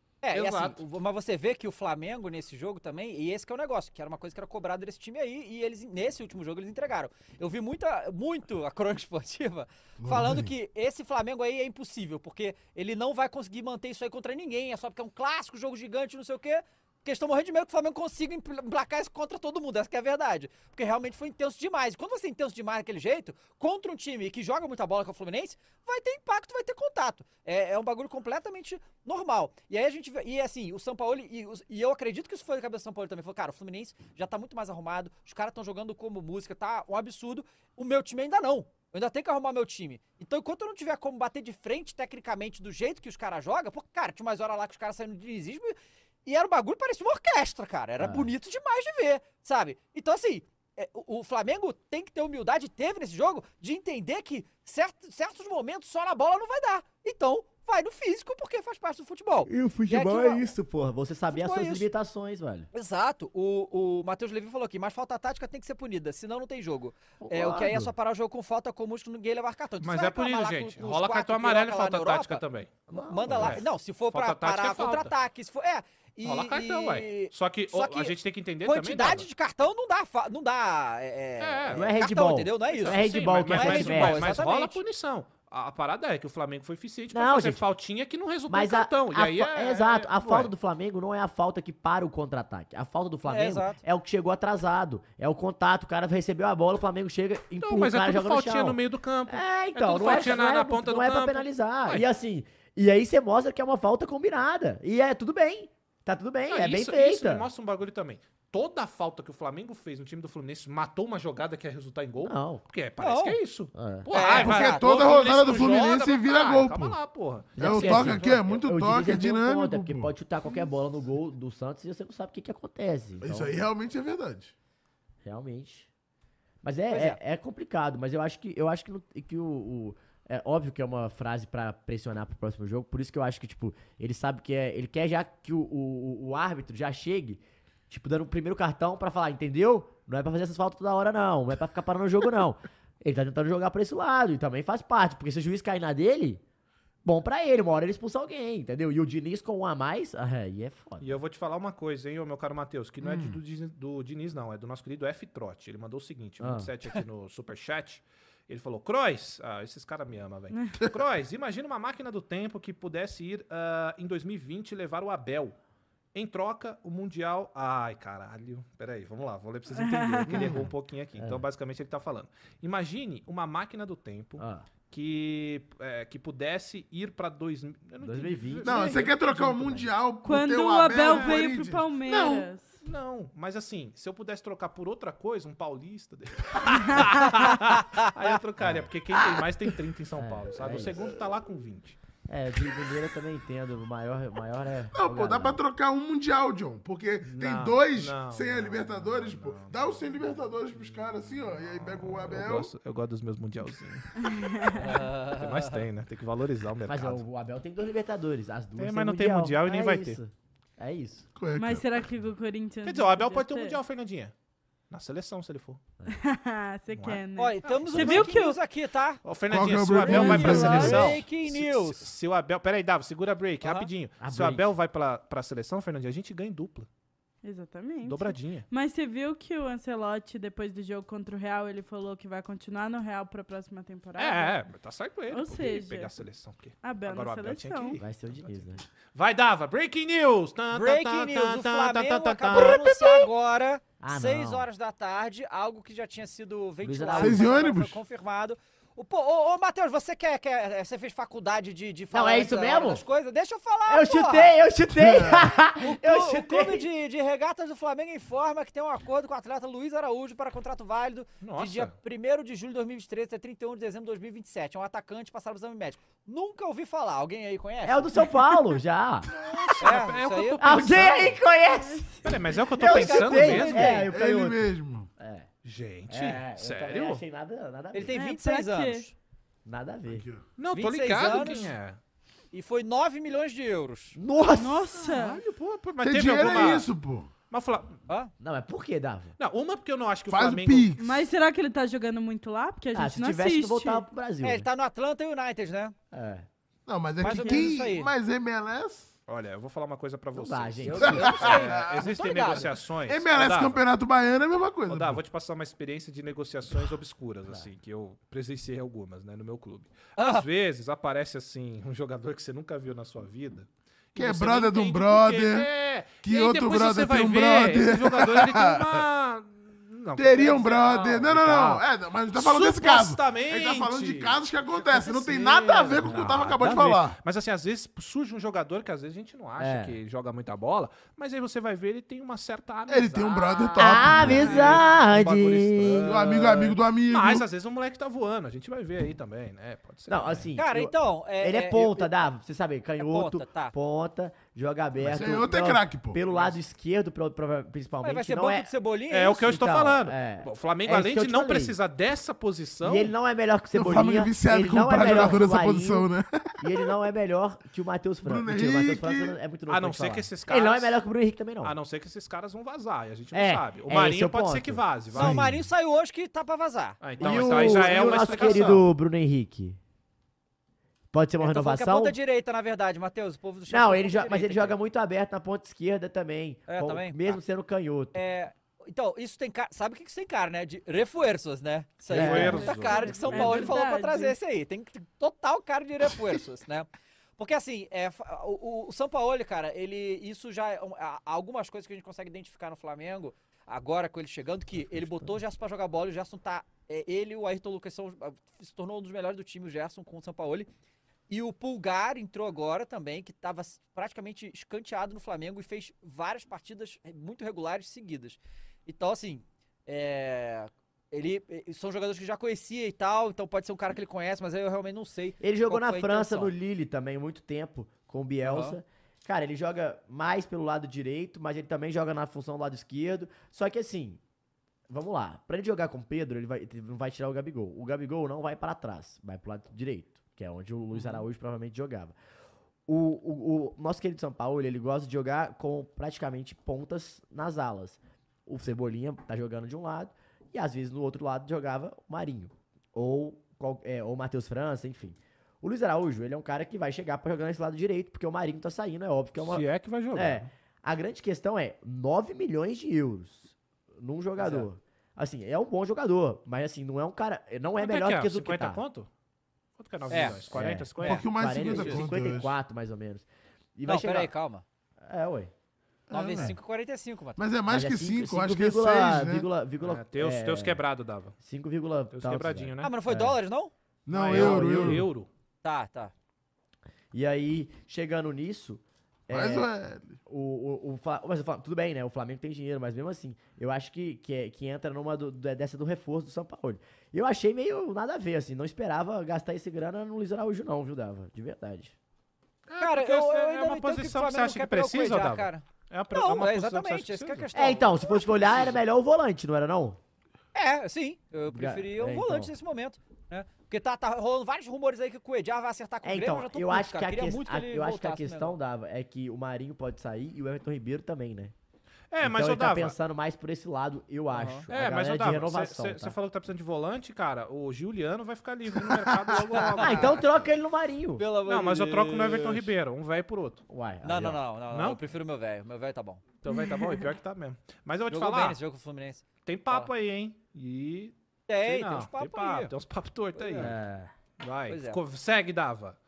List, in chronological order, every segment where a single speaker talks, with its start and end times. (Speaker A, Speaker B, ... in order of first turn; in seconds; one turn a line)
Speaker A: 0.2-60.5
Speaker B: 0.3-0.8
Speaker C: 10.0-10.5
Speaker D: 48.0-48.3
Speaker D: 59.5-62.7
Speaker A: 61.3-61.9
Speaker A: 62.7-72.4
Speaker D: 67.2-67.9
Speaker B: 69.8-72.7
Speaker D: 72.9-73.6
Speaker A: 72.9-84.8
Speaker B: 73.3-75.1
Speaker B: 76.2-79.3
Speaker B: 81.4-81.9
Speaker D: 81.7-84.3
Speaker B: 82.7-90.5
Speaker D: 87.1-87.6
Speaker D: 88.5-107.5
Speaker A: 93.3-93.8
Speaker B: 97.6-102.0
Speaker B: 106.5-118.2
Speaker D: 112.2-112.6
Speaker A: 113.0-113.4
Speaker D: 113.7-114.1
Speaker A: 114.1-115.1
Speaker C: 114.3-117.0
Speaker D: 117.6-123.6
Speaker C: 117.6-120.1
Speaker A: 117.7-118.0
Speaker C: 123.2-124.5
Speaker D: 125.2-125.9
Speaker D: 126.6-146.4
Speaker A: 126.9-127.2
Speaker D: 147.0-151.1
Speaker B: 151.0-165.5
Speaker D: 153.0-153.4
Speaker D: 156.4-156.7
Speaker B: 166.1-179.2
Speaker E: 169.7-170.5
Speaker C: 170.3-170.6
Speaker D: 170.3-171.4
Speaker D: 174.4-174.7
Speaker D: 178.0-179.9
Speaker C: 178.6-182.5
Speaker E: 178.7-179.0
Speaker E: 180.2-182.7
Speaker B: 181.0-181.4
Speaker B: 182.8-192.0
Speaker E: 186.7-187.3
Speaker A: 187.7-188.1
Speaker D: 188.6-188.9
Speaker D: 190.2-191.0
Speaker D: 192.3-195.6
Speaker C: 194.9-202.7
Speaker B: 197.2-207.2
Speaker E: 204.2-205.1
Speaker A: 204.8-205.8
Speaker D: 206.8-211.2
Speaker B: 208.8-210.2
Speaker C: 211.3-212.1
Speaker E: 211.6-213.8
Speaker B: 212.8-214.3
Speaker B: 214.9-215.8
Speaker E: 216.1-218.6
Speaker B: 216.9-218.3
Speaker A: 217.4-219.2
Speaker B: 219.2-226.9
Speaker C: 219.5-221.1
Speaker E: 219.8-221.2
Speaker A: 220.2-222.1
Speaker A: 223.6-223.9
Speaker D: 224.2-224.7
Speaker E: 227.4-234.6
Speaker B: 228.0-228.7
Speaker B: 234.2-242.8
Speaker E: 235.3-236.1
Speaker E: 236.8-238.0
Speaker D: 238.0-238.8
Speaker A: 240.7-254.5
Speaker D: 242.6-242.8
Speaker D: 244.0-244.7
Speaker D: 246.8-247.6
Speaker C: 247.2-248.0
Speaker D: 252.1-253.0
Speaker D: 253.9-256.9
Speaker C: 254.9-255.5
Speaker A: 255.7-268.2
Speaker B: 261.4-261.9
Speaker D: 267.8-269.3
Speaker B: 269.3-271.4
Speaker A: 269.8-270.9
Speaker D: 270.6-272.1
Speaker E: 271.8-272.4
Speaker B: 272.2-274.1
Speaker D: 272.8-275.5
Speaker A: 272.8-274.1
Speaker C: 274.1-275.1
Speaker B: 275.6-277.2
Speaker D: 276.1-278.1
Speaker A: 277.9-279.1
Speaker E: 278.1-279.1
Speaker D: 279.6-280.2
Speaker C: 280.1-280.4
Speaker B: 280.6-282.0
Speaker A: 280.7-281.7
Speaker A: 282.5-284.2
Speaker D: 284.1-285.0
Speaker E: 284.6-285.4
Speaker B: 285.0-286.9
Speaker C: 286.0-287.3
Speaker B: 287.5-288.0
Speaker D: 288.4-289.3
Speaker B: 289.4-290.9
Speaker C: 290.3-291.3
Speaker E: 291.0-294.0
Speaker D: 292.9-294.7
Speaker A: 294.4-295.9
Speaker D: 296.1-296.4
Speaker C: 296.9-299.1
Speaker A: 297.2-298.1
Speaker E: 297.2-297.7
Speaker B: 299.3-303.8
Speaker D: 300.3-301.6
Speaker A: 300.9-302.7
Speaker C: 301.0-302.1
Speaker C: 303.1-305.2
Speaker B: 304.9-340.5
Speaker A: 310.2-310.4
Speaker C: 314.1-315.7
Speaker C: 316.2-319.0
Speaker C: 320.2-327.2
Speaker D: 326.0-326.9
Speaker D: 329.6-330.0
Speaker C: 332.9-334.8
Speaker D: 333.8-336.4
Speaker C: 336.0-337.4
Speaker D: 340.1-348.7
Speaker A: 340.6-342.2
Speaker A: 343.0-343.7
Speaker C: 345.0-346.2
Speaker A: 348.0-349.5
Speaker B: 349.1-353.1
Speaker D: 349.3-351.8
Speaker D: 352.8-361.8
Speaker C: 353.7-356.8
Speaker C: 358.2-359.4
Speaker B: 359.7-361.0
Speaker B: 361.6-365.4
Speaker D: 363.3-364.8
Speaker C: 365.1-365.6
Speaker A: 365.1-367.0
Speaker B: 367.0-368.8
Speaker D: 367.2-369.8
Speaker D: 371.1-372.1
Speaker A: 371.4-374.7
Speaker D: 373.7-378.1
Speaker A: 376.7-377.4
Speaker A: 378.1-400.7
Speaker D: 382.1-382.7
Speaker B: 382.1-383.7
Speaker E: 382.3-384.4
Speaker D: 394.7-395.4
Speaker A: 401.3-416.5
Speaker D: 415.4-424.2
Speaker A: 418.4-418.8
Speaker D: 424.9-432.1
Speaker D: 432.9-458.8
Speaker B: 449.4-450.5
Speaker A: 454.4-454.7
Speaker B: 457.8-459.1
Speaker B: 459.8-462.1
Speaker A: 460.1-460.5
Speaker D: 460.5-464.3
Speaker C: 461.0-462.5
Speaker A: 463.9-464.6
Speaker D: 465.0-465.5
Speaker C: 466.1-466.6
Speaker A: 466.1-467.4
Speaker C: 467.4-469.5
Speaker D: 467.7-470.8
Speaker B: 469.8-471.3
Speaker D: 471.4-473.4
Speaker B: 472.1-472.9
Speaker A: 472.8-473.7
Speaker C: 474.1-475.1
Speaker B: 474.1-475.3
Speaker D: 474.3-475.1
Speaker A: 475.6-476.1
Speaker D: 477.1-479.7
Speaker C: 479.3-480.2
Speaker D: 480.2-491.9
Speaker B: 492.7-497.5
Speaker A: 492.8-498.8
Speaker D: 497.5-500.0
Speaker A: 500.5-508.6
Speaker D: 501.5-502.5
Speaker D: 506.0-511.5
Speaker B: 512.1-513.0
Speaker D: 512.2-516.1
Speaker A: 514.3-514.6
Speaker B: 514.7-520.2
Speaker A: 519.5-520.1
Speaker D: 519.7-521.2
Speaker A: 521.2-522.7
Speaker B: 521.5-523.6
Speaker D: 523.7-524.4
Speaker A: 524.0-526.2
Speaker B: 524.7-525.0
Speaker B: 526.4-528.6
Speaker E: 526.5-527.1
Speaker A: 528.1-529.9
Speaker B: 529.4-533.7
Speaker A: 531.5-532.7
Speaker A: 533.4-533.7
Speaker D: 533.6-534.1
Speaker B: 534.4-536.0
Speaker A: 534.7-535.0